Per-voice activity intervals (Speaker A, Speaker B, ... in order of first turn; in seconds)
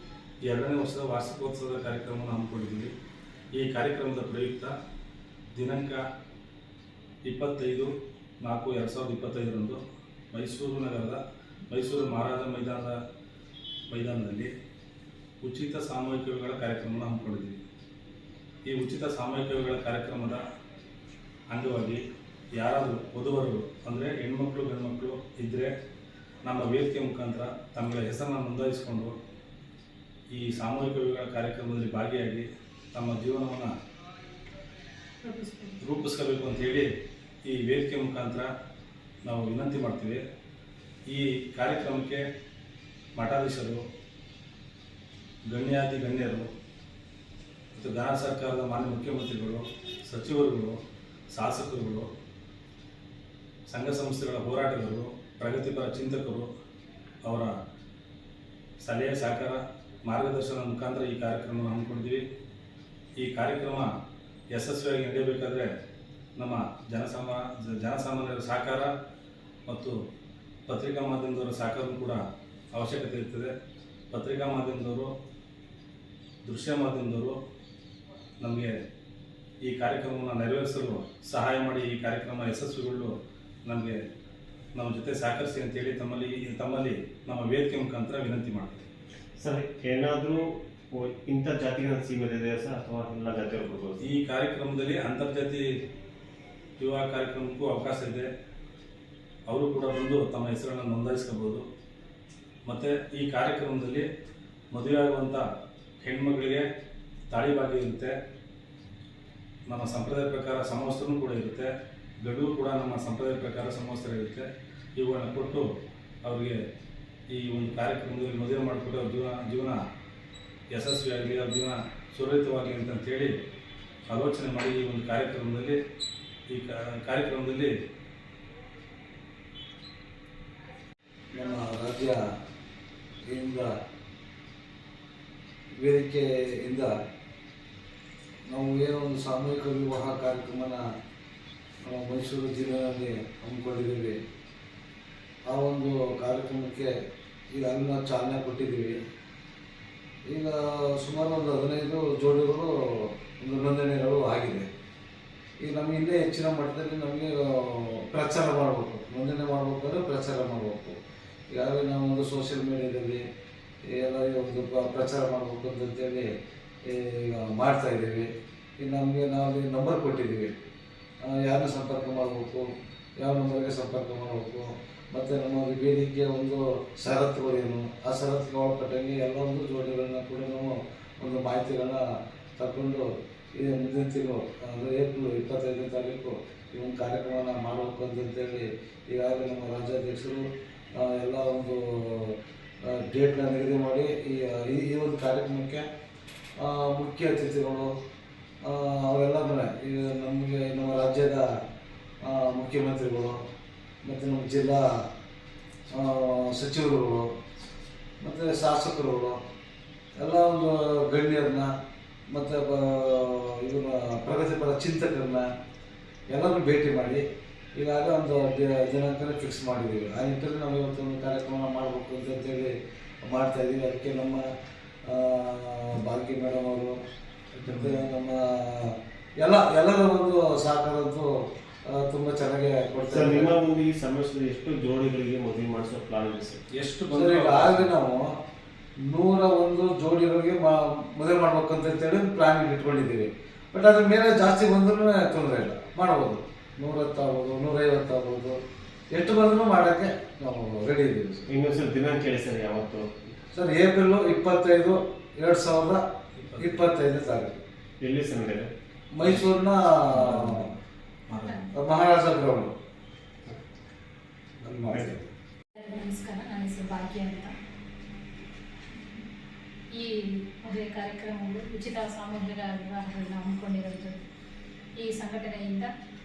Speaker A: 0.5-2.9, 3.5-4.7, 5.5-6.0, 7.2-7.9, 8.4-9.8, 10.3-11.2, 11.7-12.9, 13.9-14.5, 15.4-17.6, 18.6-20.4, 21.5-22.0, 22.6-25.7, 26.4-29.1, 30.3-33.7, 35.8-36.9, 37.5-38.5, 39.2-40.2, 41.1-42.2, 43.1-43.8, 45.5-46.5, 47.8-50.7, 51.3-52.1, 53.7-56.5, 57.2-57.5, 58.8-62.2, 63.2-63.9, 64.5-65.7, 66.4-68.9, 69.7-69.9, 70.7-72.2, 72.7-73.5, 74.1-75.1, 76.4-77.4, 78.4-78.8, 79.6-83.1, 83.7-84.0, 84.7-88.8, 94.0-95.6, 96.8-98.3, 99.5-101.6, 102.7-104.0, 104.7-105.4, 106.0-106.6, 107.3-108.1, 109.7-111.7, 112.2-115.6, 116.2-116.5, 117.3-119.8, 120.7-123.3, 124.1-125.8, 126.5-127.7, 227.5-228.1, 236.7-237.9, 256.4-256.9, 259.2-261.7
Speaker B: 35.2-35.8, 265.8-267.5, 269.9-274.2, 275.0-275.9
Speaker C: 89.4-94.0, 233.1-236.6, 251.5-253.3, 258.0-258.7, 264.6-265.1
Speaker D: 131.3-132.2, 133.3-133.7, 135.8-136.9, 138.5-140.8, 141.8-144.2, 145.5-146.9, 147.5-149.0, 150.3-154.7, 155.6-160.9, 161.5-163.2, 163.9-166.3, 166.8-168.3, 168.8-170.5, 171.2-172.6, 173.2-182.0, 182.6-183.1, 183.6-190.4, 190.9-195.8, 196.6-197.9, 198.6-201.4, 202.2-203.4, 204.0-204.9, 205.9-207.2, 208.2-209.4, 210.2-211.7, 212.3-215.4, 216.3-217.2, 217.8-222.7, 223.3-224.4, 225.1-226.9, 227.7-231.3, 231.9-233.5, 237.1-238.3, 239.1-248.6, 249.1-251.5, 253.5-256.0, 256.6-257.6, 259.1-260.7, 261.7-262.7, 264.6-265.2